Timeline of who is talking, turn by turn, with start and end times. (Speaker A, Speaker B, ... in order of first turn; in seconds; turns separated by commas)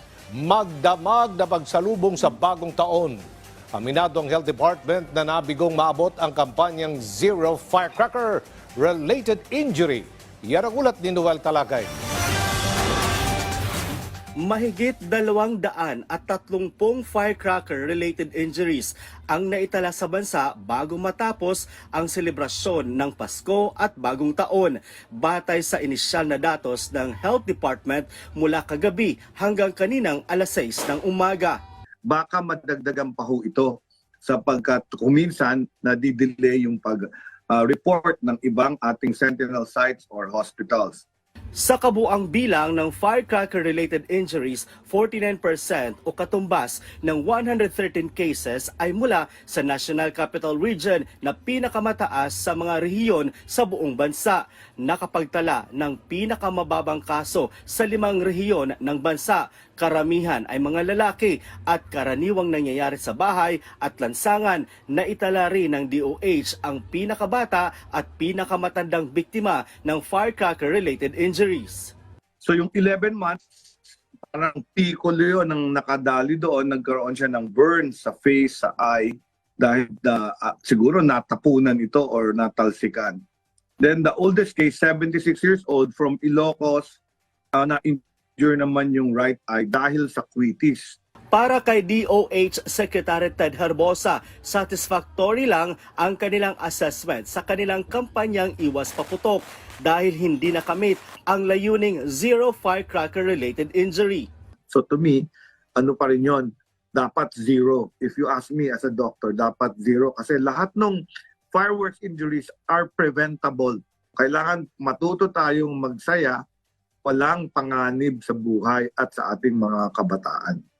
Speaker A: 0.4-3.2, Speaker A: 3.8-11.9, Speaker B: 14.4-31.6, Speaker C: 32.0-41.0, Speaker B: 41.5-71.9, Speaker C: 72.4-73.4, Speaker C: 74.3-83.2, Speaker C: 83.8-87.0, Speaker C: 87.5-91.0, Speaker B: 91.3-104.3, Speaker C: 104.7-116.4, Speaker C: 117.0-120.6